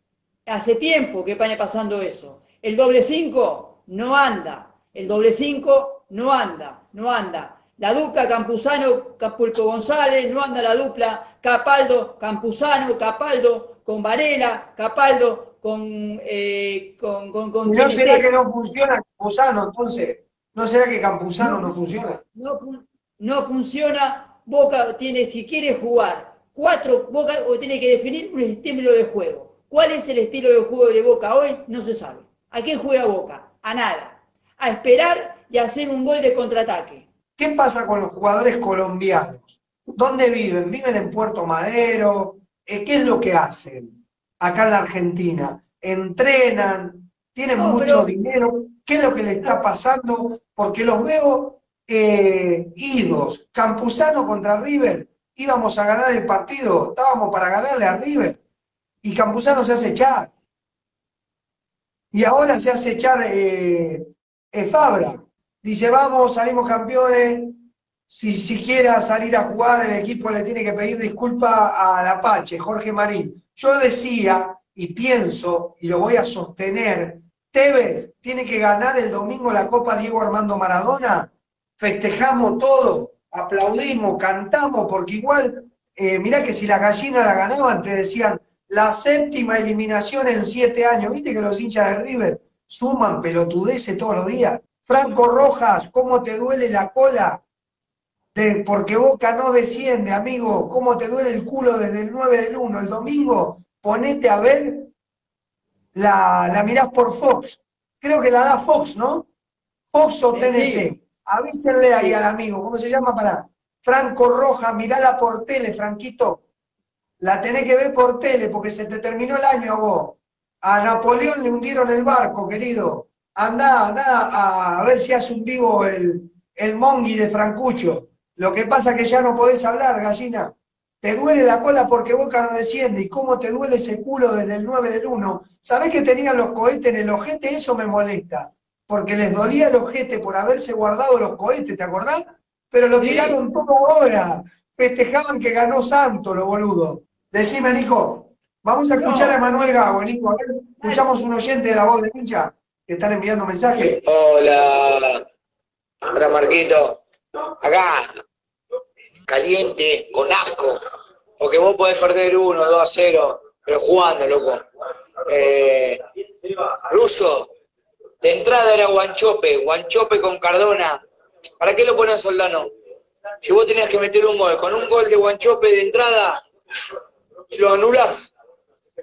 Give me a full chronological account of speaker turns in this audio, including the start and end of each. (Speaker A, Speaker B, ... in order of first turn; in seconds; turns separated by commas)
Speaker A: 0.5-18.3, Speaker B: 17.6-22.2, Speaker A: 21.4-21.7, Speaker A: 22.3-37.0, Speaker B: 37.4-58.4, Speaker A: 47.6-48.1, Speaker B: 59.0-60.3, Speaker B: 62.1-97.4, Speaker B: 98.3-104.9, Speaker B: 105.9-109.3, Speaker B: 109.9-116.4, Speaker A: 110.3-110.9, Speaker B: 117.2-154.0, Speaker A: 143.0-143.4, Speaker A: 149.0-149.4, Speaker A: 150.8-151.1, Speaker C: 153.8-155.2, Speaker C: 156.1-157.0, Speaker C: 157.6-158.2, Speaker C: 159.3-160.8, Speaker C: 161.4-164.6, Speaker C: 165.3-166.0, Speaker C: 166.9-167.5, Speaker C: 168.2-171.0, Speaker C: 171.6-172.7, Speaker C: 173.4-176.4, Speaker C: 177.5-178.3